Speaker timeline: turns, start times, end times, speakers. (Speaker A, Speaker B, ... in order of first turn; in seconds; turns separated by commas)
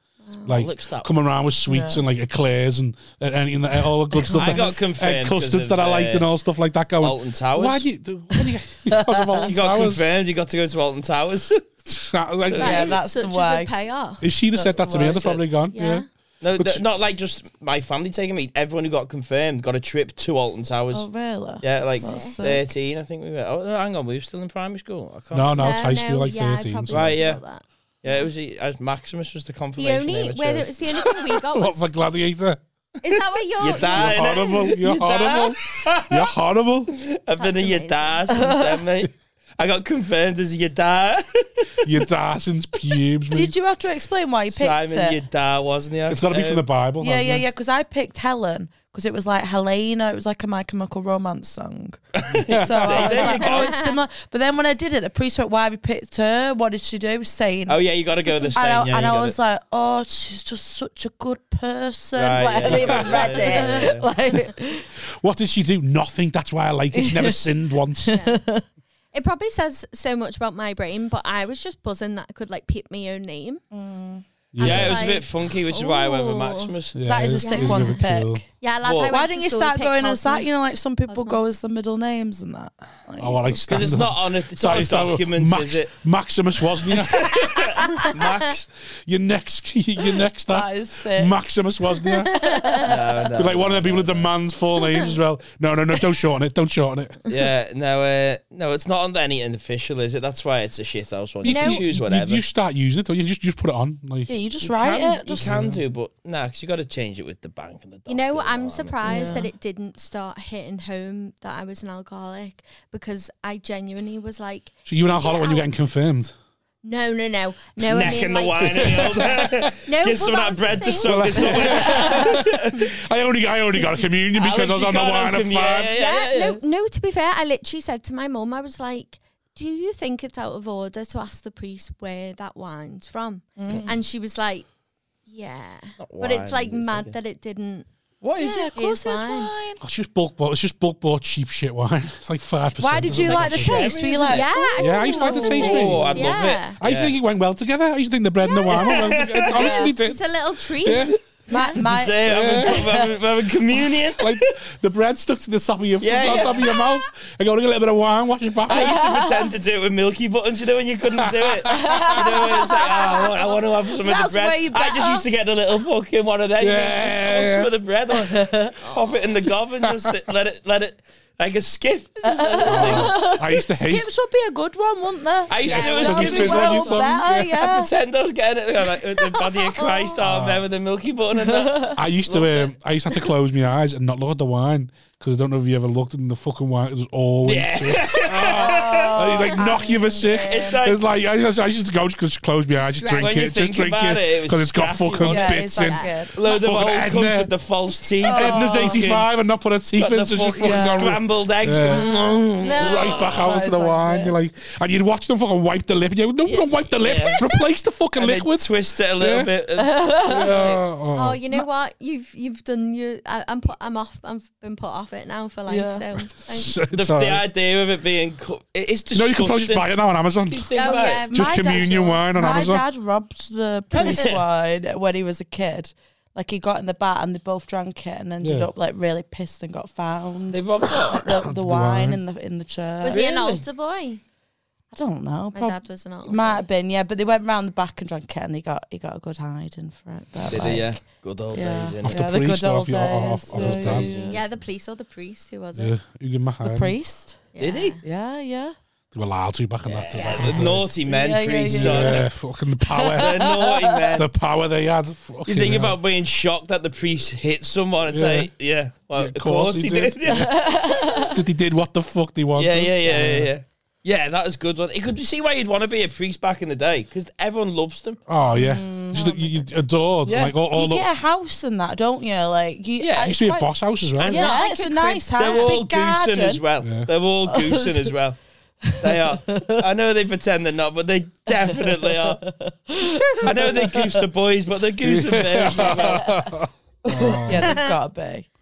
Speaker A: 0.2-0.5, Speaker B: 0.4-10.0, Speaker C: 0.5-1.1, Speaker D: 1.6-2.0, Speaker D: 4.1-4.8, Speaker C: 4.3-6.3, Speaker C: 7.0-7.8, Speaker D: 8.4-9.5, Speaker C: 9.4-11.6, Speaker B: 11.8-12.9, Speaker C: 12.5-12.9, Speaker D: 12.5-13.7, Speaker A: 12.6-14.3, Speaker B: 14.2-16.0, Speaker D: 14.6-15.2, Speaker C: 14.8-15.4, Speaker A: 15.7-16.1, Speaker C: 16.4-21.1, Speaker B: 16.6-16.8, Speaker D: 20.9-22.6, Speaker C: 21.6-25.7, Speaker A: 22.0-22.5, Speaker B: 25.3-27.2, Speaker A: 25.6-28.2, Speaker C: 26.9-27.4, Speaker C: 28.0-31.2, Speaker A: 29.8-31.9, Speaker B: 31.5-32.6, Speaker A: 33.0-35.0, Speaker C: 33.6-36.2, Speaker B: 33.9-36.9, Speaker C: 36.9-41.9, Speaker A: 37.4-38.4, Speaker D: 38.3-38.8, Speaker B: 41.8-43.5, Speaker D: 43.3-45.2, Speaker C: 44.5-46.6, Speaker B: 46.1-47.4, Speaker D: 47.0-52.0, Speaker C: 52.1-53.9, Speaker B: 52.5-53.3, Speaker D: 52.5-64.9, Speaker A: 53.2-54.0, Speaker C: 57.7-59.4, Speaker C: 62.1-64.0, Speaker B: 62.9-63.1, Speaker B: 65.2-68.1, Speaker D: 66.9-67.3, Speaker D: 68.0-68.6, Speaker A: 68.1-68.5, Speaker A: 69.1-73.6, Speaker D: 73.7-74.2, Speaker B: 74.5-75.1, Speaker A: 74.6-76.7, Speaker C: 74.6-77.0, Speaker B: 76.9-78.4, Speaker D: 77.0-78.5, Speaker A: 77.4-78.0, Speaker A: 78.6-81.4, Speaker C: 78.8-79.1, Speaker D: 79.1-84.0, Speaker B: 83.2-87.8, Speaker C: 83.7-85.9, Speaker C: 87.2-88.7, Speaker B: 89.0-92.6, Speaker D: 90.5-91.4, Speaker D: 92.2-93.0, Speaker A: 92.3-92.8, Speaker C: 92.8-94.3, Speaker B: 93.3-97.2, Speaker C: 97.3-102.4, Speaker B: 101.4-104.3, Speaker A: 101.4-101.8, Speaker D: 104.3-105.6, Speaker C: 104.6-109.4, Speaker B: 105.4-105.8, Speaker A: 108.1-115.7, Speaker D: 109.0-109.5, Speaker B: 114.8-116.3, Speaker A: 116.8-119.3, Speaker C: 117.8-122.9, Speaker B: 117.9-119.7, Speaker A: 119.8-122.4, Speaker B: 121.0-125.9, Speaker C: 124.3-126.6, Speaker A: 125.9-134.7, Speaker D: 133.6-134.0, Speaker A: 135.3-137.9, Speaker C: 136.0-137.1, Speaker C: 138.2-138.7, Speaker D: 138.3-139.8, Speaker A: 138.4-139.5, Speaker B: 139.8-143.9, Speaker D: 142.8-145.8, Speaker C: 143.1-144.5, Speaker A: 144.3-146.8, Speaker B: 144.8-150.3, Speaker C: 145.2-147.2, Speaker A: 148.4-151.7, Speaker C: 148.7-149.8, Speaker D: 149.5-149.9, Speaker B: 150.8-151.2, Speaker D: 151.5-153.1, Speaker C: 151.7-154.5, Speaker B: 152.2-153.1, Speaker B: 154.1-159.0, Speaker C: 156.0-156.7, Speaker A: 156.3-156.8, Speaker D: 158.7-159.5, Speaker C: 158.7-173.3, Speaker B: 161.2-162.1, Speaker D: 161.6-165.2, Speaker A: 162.9-163.4, Speaker B: 166.6-167.7, Speaker D: 168.2-168.7, Speaker A: 168.8-169.2, Speaker D: 172.2-177.9, Speaker B: 172.7-174.1, Speaker C: 175.5-182.8, Speaker A: 175.6-177.0, Speaker B: 175.7-177.6, Speaker A: 179.4-180.2, Speaker B: 180.2-180.7, Speaker D: 181.4-182.0, Speaker B: 181.9-197.5, Speaker C: 187.4-189.2, Speaker D: 188.3-190.8, Speaker C: 190.4-191.0, Speaker A: 192.8-193.5, Speaker C: 193.2-195.6, Speaker D: 195.2-196.4, Speaker A: 195.7-196.2, Speaker C: 196.3-199.3, Speaker D: 198.2-199.2, Speaker B: 198.3-202.1, Speaker C: 200.0-203.5, Speaker D: 200.6-201.1, Speaker A: 201.9-203.4, Speaker B: 202.7-208.7, Speaker D: 203.1-204.3, Speaker C: 206.5-207.4, Speaker C: 208.2-210.1, Speaker B: 209.2-209.5, Speaker D: 209.8-210.7, Speaker B: 210.2-211.7, Speaker A: 211.1-216.7, Speaker D: 215.7-216.1, Speaker B: 216.2-217.4, Speaker C: 216.9-219.9, Speaker B: 219.1-220.7, Speaker C: 220.5-221.3, Speaker A: 220.7-222.7, Speaker D: 221.1-233.6, Speaker B: 221.3-222.8, Speaker A: 223.9-224.3, Speaker C: 223.9-224.4, Speaker B: 228.4-228.7, Speaker C: 230.5-231.2, Speaker B: 231.4-232.2, Speaker A: 233.0-234.2, Speaker C: 233.1-233.6, Speaker D: 234.9-244.4, Speaker A: 235.5-236.7, Speaker C: 240.5-242.3, Speaker B: 242.0-244.1, Speaker C: 243.5-244.4, Speaker A: 244.3-245.9, Speaker B: 245.7-247.0, Speaker D: 246.6-247.4, Speaker A: 247.5-248.0, Speaker C: 247.6-248.0, Speaker D: 248.0-248.8, Speaker B: 249.1-250.9, Speaker C: 249.8-252.3, Speaker A: 250.1-250.7, Speaker D: 251.0-252.3, Speaker B: 251.7-253.4, Speaker D: 252.8-254.2, Speaker C: 253.2-254.3, Speaker B: 254.2-255.9, Speaker C: 255.4-261.2, Speaker B: 258.1-258.5, Speaker B: 259.1-260.5, Speaker D: 260.2-261.4, Speaker B: 261.3-263.5, Speaker C: 262.6-268.2, Speaker B: 268.3-271.1, Speaker D: 268.5-269.4, Speaker A: 269.1-269.5, Speaker C: 270.2-270.6, Speaker D: 270.7-276.6, Speaker C: 273.0-273.4, Speaker B: 273.2-274.4, Speaker C: 274.2-282.5, Speaker A: 274.3-275.8, Speaker B: 276.8-277.1, Speaker D: 277.4-278.1, Speaker D: 278.8-279.8, Speaker D: 281.5-284.2, Speaker C: 283.4-286.4, Speaker B: 285.0-287.8, Speaker D: 285.8-286.6, Speaker C: 287.1-287.4, Speaker D: 287.4-288.4, Speaker A: 287.6-288.0